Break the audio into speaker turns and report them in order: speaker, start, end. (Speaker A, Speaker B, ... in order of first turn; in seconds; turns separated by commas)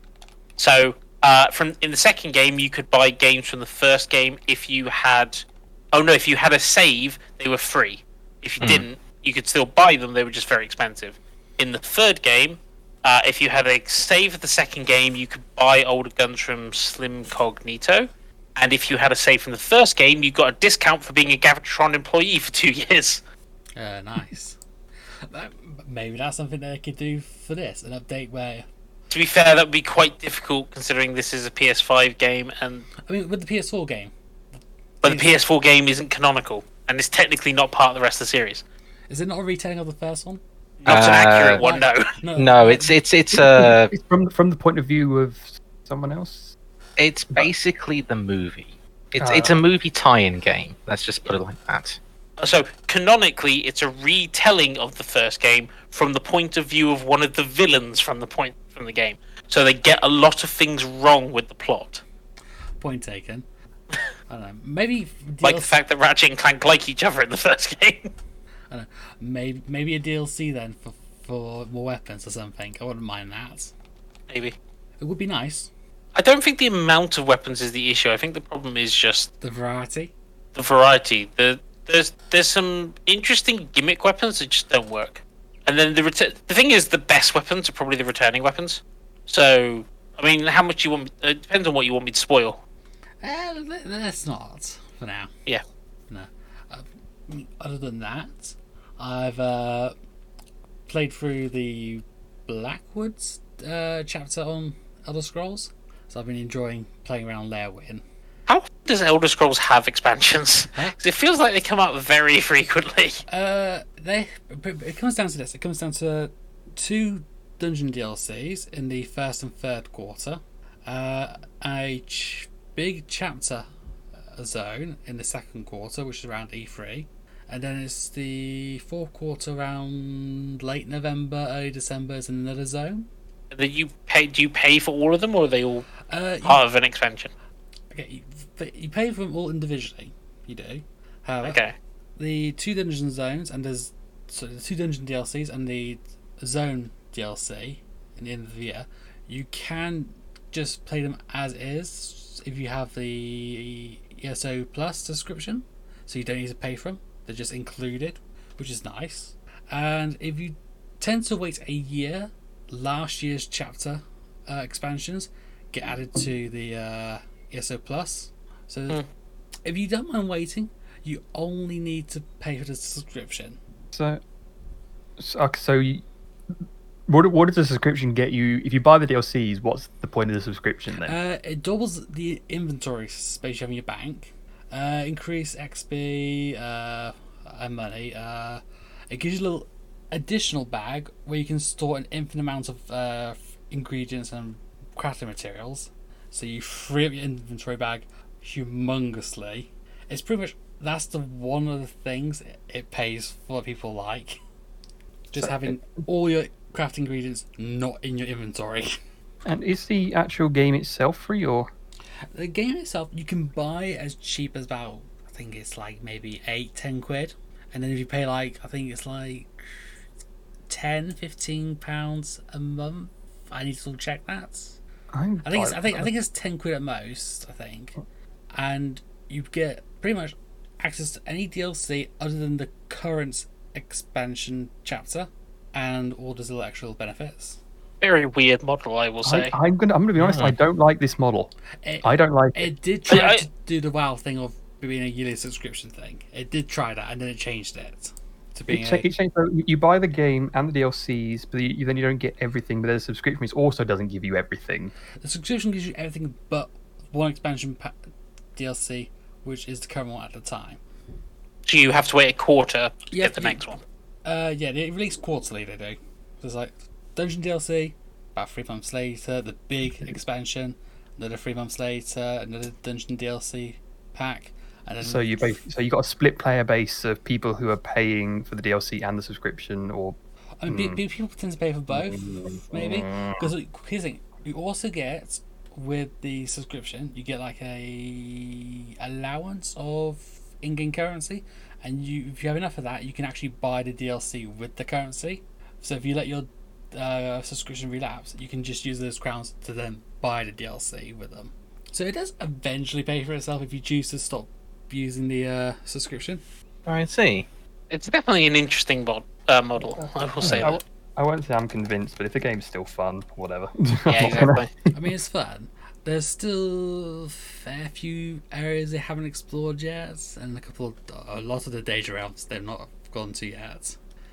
Speaker A: 0.6-23.2, Speaker B: 23.8-24.6, Speaker B: 25.3-28.7, Speaker A: 29.1-32.9, Speaker B: 33.1-35.3, Speaker A: 35.0-38.6, Speaker B: 39.1-40.4, Speaker A: 40.8-42.1, Speaker C: 40.9-41.6, Speaker B: 41.0-43.0, Speaker C: 42.4-43.9, Speaker D: 43.3-46.6, Speaker C: 47.0-52.0, Speaker D: 49.2-49.6, Speaker A: 52.4-62.0, Speaker B: 62.8-63.5, Speaker B: 64.3-65.7, Speaker A: 65.4-68.1, Speaker B: 68.7-73.7, Speaker A: 74.3-74.6, Speaker B: 75.0-75.7, Speaker A: 76.2-79.3, Speaker B: 79.4-80.1, Speaker A: 80.5-92.6, Speaker B: 93.2-95.3, Speaker B: 96.1-99.9, Speaker B: 100.9-108.0, Speaker A: 108.5-113.2, Speaker B: 113.3-123.7, Speaker B: 124.3-133.1, Speaker A: 133.5-135.9, Speaker B: 136.1-136.6, Speaker A: 136.4-137.3, Speaker B: 137.9-141.6, Speaker A: 141.4-141.8, Speaker B: 142.2-169.0, Speaker B: 169.7-173.6, Speaker D: 173.9-174.2, Speaker D: 175.2-176.0, Speaker D: 177.1-181.2, Speaker B: 181.1-204.4, Speaker B: 205.3-208.9, Speaker D: 205.4-206.0, Speaker D: 209.4-211.7, Speaker B: 212.3-219.5, Speaker B: 220.7-224.8, Speaker D: 225.1-226.1, Speaker B: 225.4-228.0, Speaker B: 228.5-237.6, Speaker A: 238.0-239.5, Speaker D: 239.2-241.5, Speaker C: 240.2-240.6, Speaker B: 241.8-249.1, Speaker D: 242.0-242.7, Speaker A: 243.1-243.4, Speaker D: 248.7-254.9, Speaker B: 255.2-257.9, Speaker B: 258.6-260.8, Speaker A: 261.7-263.8, Speaker B: 263.1-263.6, Speaker B: 264.2-275.6, Speaker D: 275.0-280.2, Speaker B: 280.6-306.4, Speaker D: 280.7-281.0, Speaker D: 281.9-283.5, Speaker C: 306.9-307.5, Speaker A: 307.9-310.8, Speaker D: 309.8-314.7, Speaker A: 314.1-314.7, Speaker B: 314.9-324.0